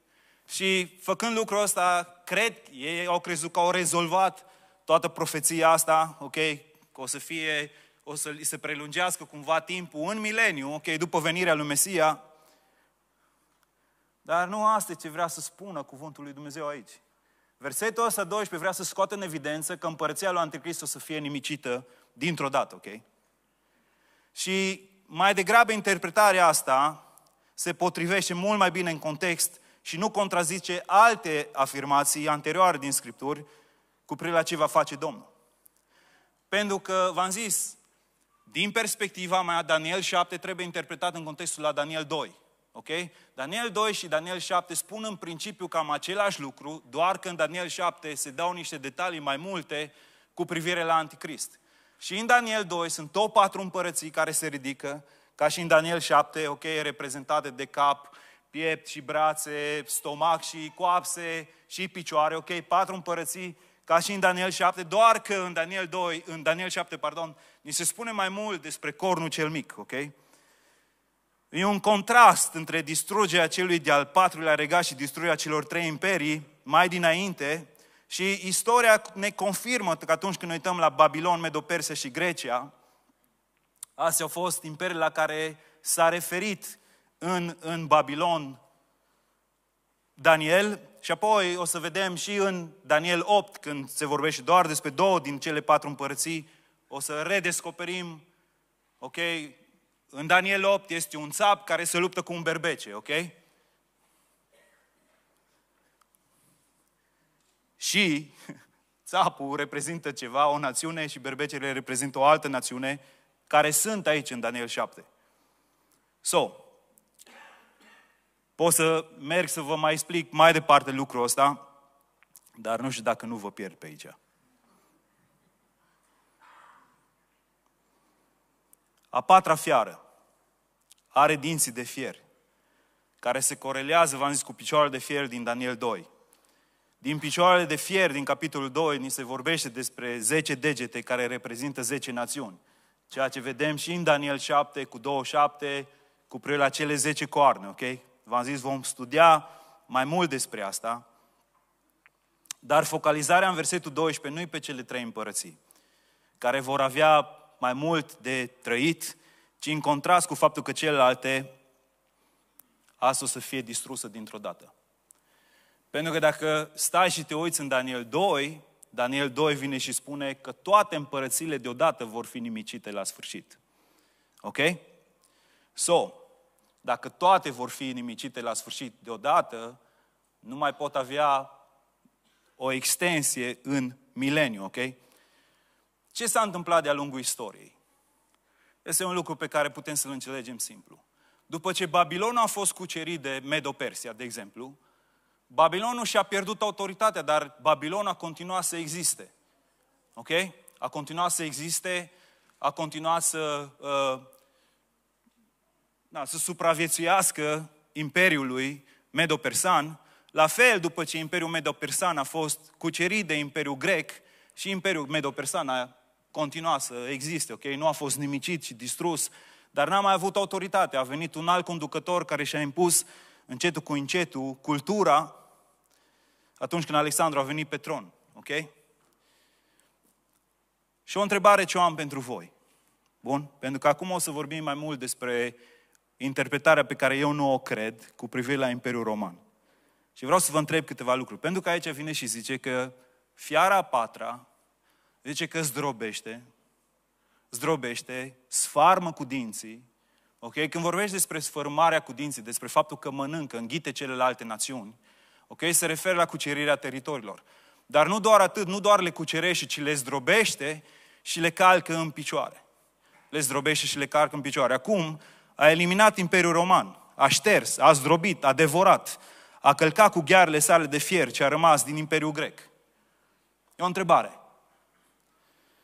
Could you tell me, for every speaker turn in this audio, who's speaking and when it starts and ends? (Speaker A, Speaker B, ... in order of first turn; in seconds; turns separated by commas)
Speaker A: 0.5-12.2, Speaker A: 14.2-17.0, Speaker A: 17.6-23.0, Speaker A: 24.3-27.0, Speaker A: 27.6-33.5, Speaker A: 34.1-35.3, Speaker A: 36.5-37.8, Speaker A: 38.5-70.1, Speaker A: 71.5-82.7, Speaker A: 84.0-88.6, Speaker A: 90.2-98.2, Speaker A: 99.0-99.6, Speaker A: 100.1-103.4, Speaker A: 107.8-108.3, Speaker A: 109.0-115.1, Speaker A: 116.2-116.7, Speaker A: 118.6-121.6, Speaker A: 122.6-124.2, Speaker A: 129.1-130.0, Speaker A: 131.1-132.2, Speaker A: 133.2-136.1, Speaker A: 137.0-142.6, Speaker A: 143.1-151.0, Speaker A: 152.6-155.6, Speaker A: 156.4-161.5, Speaker A: 163.0-164.7, Speaker A: 165.9-173.6, Speaker A: 174.4-174.9, Speaker A: 175.8-176.2, Speaker A: 176.8-179.8, Speaker A: 180.4-181.5, Speaker A: 182.6-185.0, Speaker A: 186.1-187.7, Speaker A: 188.8-194.8, Speaker A: 195.5-199.3, Speaker A: 200.2-204.2, Speaker A: 206.1-225.3, Speaker A: 226.6-228.7, Speaker A: 231.1-232.5, Speaker A: 233.2-235.6, Speaker A: 236.2-239.4, Speaker A: 240.2-244.4, Speaker A: 245.2-246.4, Speaker A: 247.5-249.8, Speaker A: 250.4-255.0, Speaker A: 255.5-262.6, Speaker A: 263.3-272.7, Speaker A: 273.8-274.3